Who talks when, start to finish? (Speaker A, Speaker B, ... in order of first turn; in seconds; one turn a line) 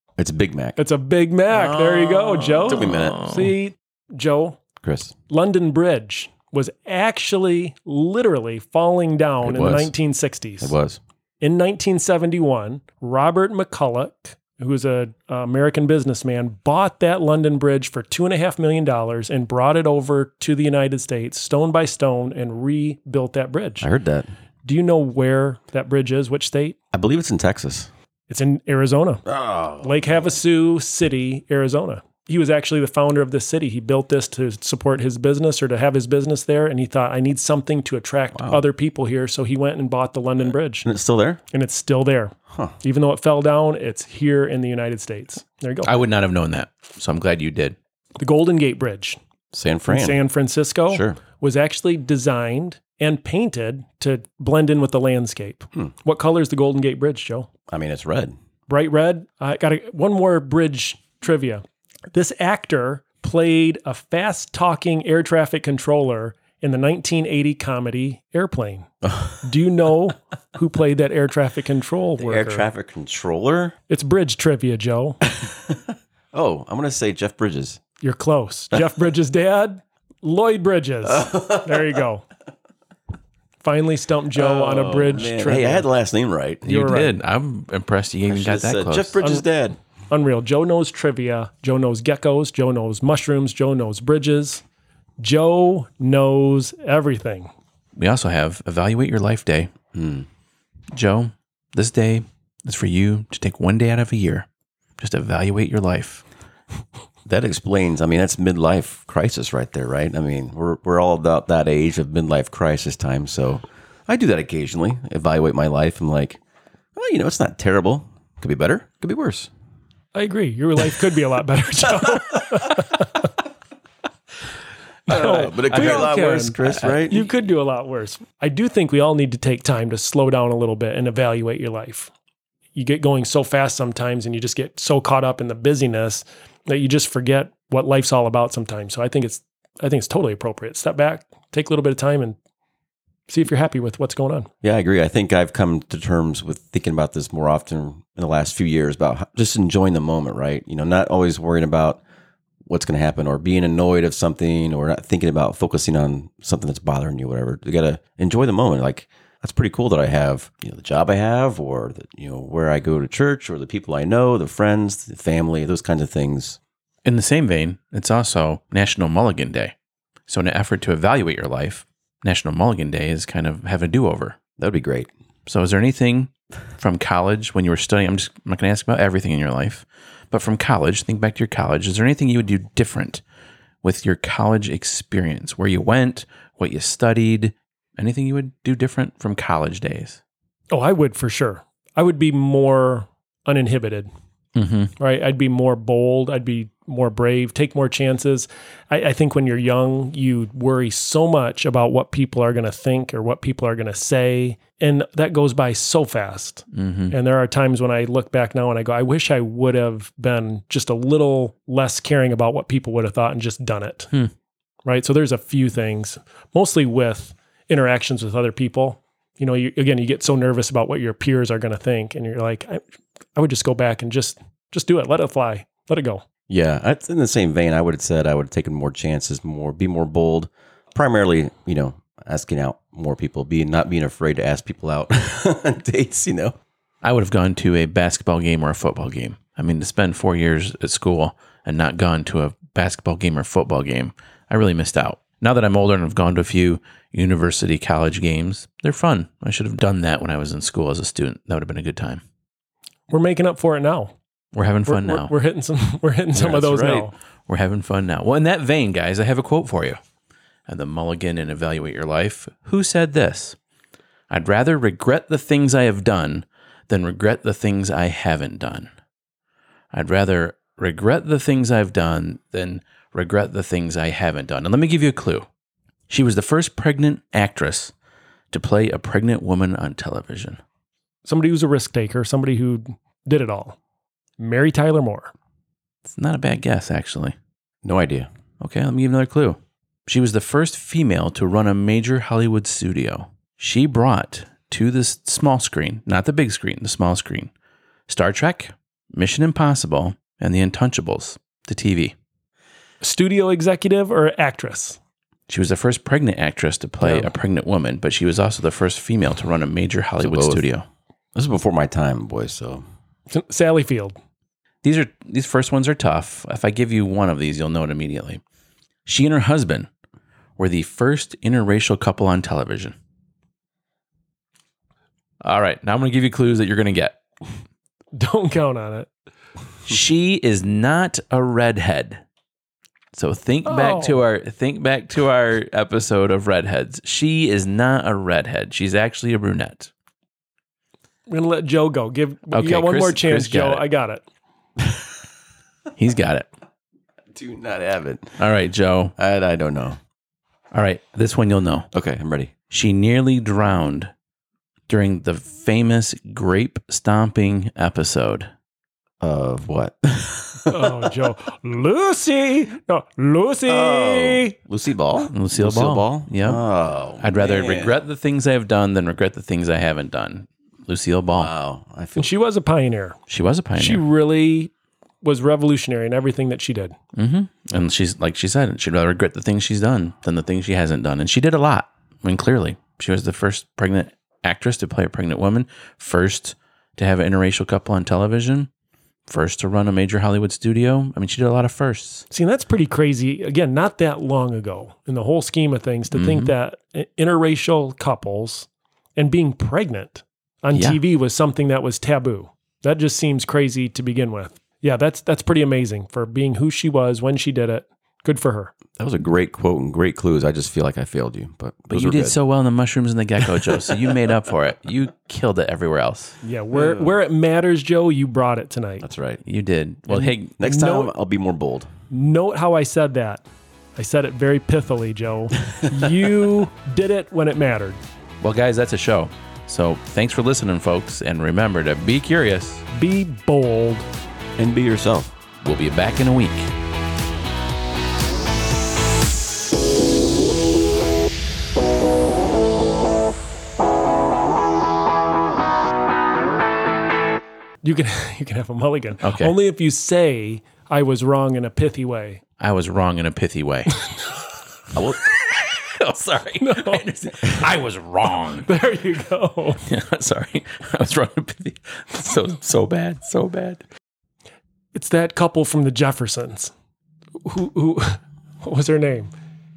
Speaker A: 0.2-0.8
Speaker B: 0.8-4.6
Speaker A: 2.4-3.2
Speaker C: 2.5-3.5
Speaker A: 4.8-5.1
Speaker B: 5.3-10.7
Speaker A: 9.4-9.9
Speaker A: 10.6-11.0
Speaker B: 11.4-23.9
Speaker A: 23.8-24.3
Speaker B: 24.6-26.8
Speaker A: 26.9-27.9
Speaker B: 28.3-29.2
Speaker A: 29.3-30.3
Speaker B: 29.8-40.9
Speaker A: 38.3-38.6
Speaker A: 40.8-41.4
Speaker B: 41.5-45.9
Speaker C: 45.9-47.8
Speaker B: 48.2-49.2
Speaker A: 49.5-50.2
Speaker B: 49.9-57.5
Speaker A: 50.9-51.2
Speaker A: 57.7-58.3
Speaker B: 58.7-68.9
Speaker A: 69.0-69.4
Speaker B: 69.4-72.7
Speaker A: 72.2-73.8
Speaker B: 73.9-75.2
Speaker A: 75.3-77.8
Speaker B: 78.0-82.3
Speaker A: 81.0-82.0
Speaker B: 83.6-85.9
Speaker A: 84.3-86.7
Speaker B: 86.7-87.2
Speaker C: 86.7-89.2
Speaker A: 88.3-89.8
Speaker B: 89.2-89.5
Speaker B: 90.1-94.6
Speaker B: 95.2-97.5
Speaker C: 98.0-99.7
Speaker A: 99.9-100.3
Speaker C: 100.9-104.5
Speaker C: 105.0-106.2
Speaker A: 107.3-116.4
Speaker A: 117.0-119.5
Speaker B: 120.1-123.2
Speaker A: 125.1-127.2
Speaker B: 125.1-132.1
Speaker C: 125.5-127.0
Speaker B: 132.8-142.4
Speaker B: 143.3-144.5
Speaker A: 144.6-152.0
Speaker A: 152.7-166.6
Speaker C: 167.1-169.7
Speaker C: 170.3-174.4
Speaker A: 174.6-175.1
Speaker C: 175.5-183.2
Speaker C: 183.8-190.2
Speaker B: 190.7-194.1
Speaker C: 194.6-194.9
Speaker B: 195.0-214.1
Speaker C: 206.7-207.1
Speaker B: 214.8-222.8
Speaker B: 223.4-226.2
Speaker A: 226.5-236.6
Speaker C: 237.0-252.2
Speaker B: 253.1-254.1
Speaker C: 254.5-255.3
Speaker B: 254.8-257.1
Speaker C: 256.3-260.0
Speaker C: 260.7-263.6
Speaker C: 264.3-268.9
Speaker C: 269.9-275.5
Speaker C: 276.1-277.9
Speaker C: 278.5-280.6
Speaker B: 281.2-283.8
Speaker B: 284.4-285.3
Speaker C: 286.1-287.4
Speaker A: 287.8-288.3
Speaker C: 288.6-297.5
Speaker C: 298.1-302.1
Speaker B: 303.0-305.0
Speaker C: 305.5-310.9
Speaker B: 307.0-307.3
Speaker A: 310.2-310.7
Speaker A: 311.4-312.8
Speaker B: 313.3-314.2
Speaker C: 314.8-318.4
Speaker C: 319.1-319.9
Speaker C: 320.6-323.0
Speaker C: 325.4-327.2
Speaker B: 328.1-329.1
Speaker C: 329.9-332.2
Speaker C: 333.1-339.9
Speaker B: 333.7-334.2
Speaker B: 341.3-344.2
Speaker C: 342.5-343.9
Speaker C: 346.0-346.5
Speaker A: 347.3-348.4
Speaker C: 348.4-349.1
Speaker A: 349.2-350.0
Speaker C: 350.7-351.9
Speaker A: 351.9-352.5
Speaker C: 352.7-354.1
Speaker C: 354.9-358.5
Speaker A: 359.2-361.1
Speaker B: 360.7-364.6
Speaker A: 363.7-368.0
Speaker C: 365.3-366.6
Speaker C: 367.2-371.5
Speaker A: 371.4-372.3
Speaker B: 372.2-373.2
Speaker C: 373.3-374.0
Speaker B: 373.8-374.7
Speaker B: 375.2-377.0
Speaker C: 377.1-388.7
Speaker C: 389.3-392.3
Speaker B: 392.3-408.7
Speaker C: 396.1-396.5
Speaker C: 400.7-401.0
Speaker A: 409.0-412.4
Speaker C: 411.9-416.4
Speaker B: 416.4-419.1
Speaker A: 416.7-417.1
Speaker A: 419.0-419.4
Speaker C: 419.4-420.6
Speaker B: 420.1-421.1
Speaker A: 420.6-421.9
Speaker B: 422.1-423.4
Speaker B: 424.0-428.0
Speaker C: 428.4-432.8
Speaker B: 432.9-434.1
Speaker A: 434.6-435.3
Speaker C: 435.6-436.7
Speaker B: 447.8-452.4
Speaker C: 449.2-449.6
Speaker C: 452.6-454.0
Speaker A: 454.9-455.2
Speaker C: 455.0-458.7
Speaker B: 456.6-457.1
Speaker B: 458.6-459.8
Speaker C: 459.9-463.8
Speaker B: 464.9-466.7
Speaker B: 467.4-469.3